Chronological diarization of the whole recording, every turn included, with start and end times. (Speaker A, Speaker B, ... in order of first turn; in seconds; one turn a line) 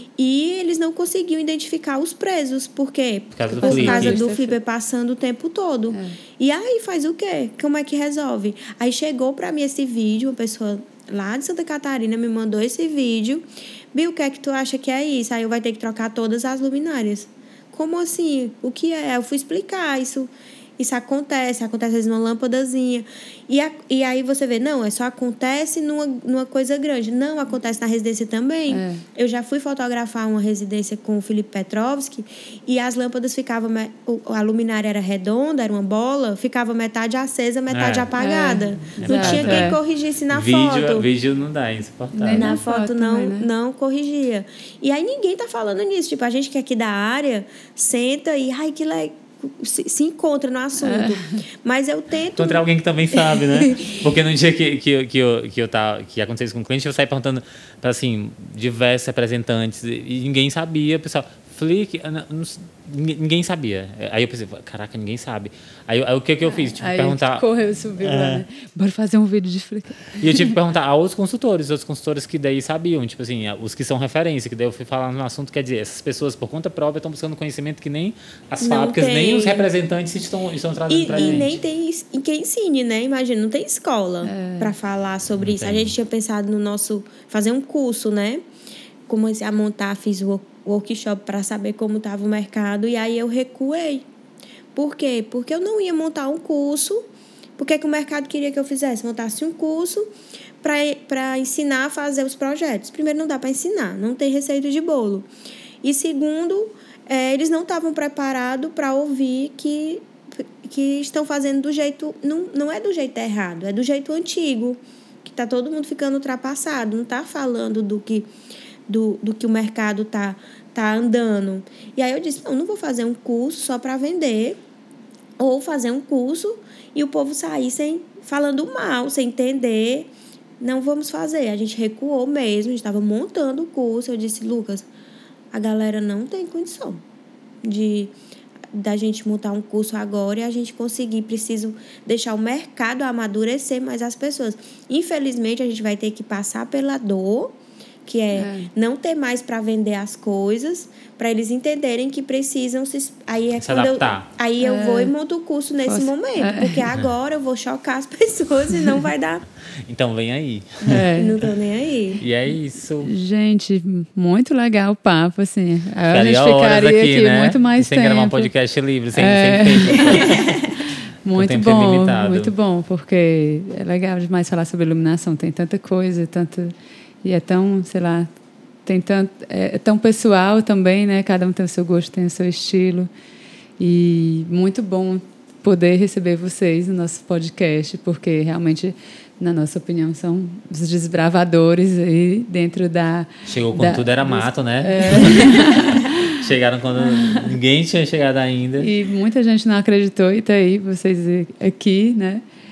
Speaker A: 0.2-41.0
Speaker B: 3.3-4.2
Speaker C: 3.6-4.5
Speaker C: 5.9-6.2
Speaker C: 28.7-29.0
Speaker B: 37.7-38.1
Speaker C: 38.1-39.8
Speaker B: 39.0-39.8
Speaker B: 40.3-42.6
Speaker C: 42.1-43.5
Speaker A: 42.3-54.0
Speaker C: 50.8-51.4
Speaker B: 52.4-67.4
Speaker C: 66.4-70.5
Speaker B: 68.0-68.4
Speaker B: 70.2-81.6
Speaker A: 78.6-79.7
Speaker A: 80.9-88.4
Speaker C: 81.1-81.5
Speaker C: 84.2-84.7
Speaker B: 85.4-85.9
Speaker A: 89.1-94.0
Speaker A: 94.7-97.0
Speaker A: 97.6-100.1
Speaker A: 100.6-105.3
Speaker A: 105.8-118.3
Speaker A: 118.9-124.6
Speaker A: 125.4-130.1
Speaker A: 130.6-134.8
Speaker A: 135.5-137.0
Speaker A: 137.6-138.1
Speaker A: 138.7-159.4
Speaker C: 148.3-148.7
Speaker B: 153.6-154.3
Speaker C: 154.6-155.1
Speaker C: 155.9-156.9
Speaker B: 159.8-161.1
Speaker C: 160.8-161.4
Speaker A: 161.1-162.2
Speaker B: 162.2-163.1
Speaker C: 163.0-168.5
Speaker B: 166.1-170.7
Speaker C: 169.1-178.3
Speaker B: 171.3-172.5
Speaker C: 178.8-183.1
Speaker C: 183.8-196.3
Speaker B: 193.5-198.9
Speaker C: 197.0-197.6
Speaker C: 198.8-202.4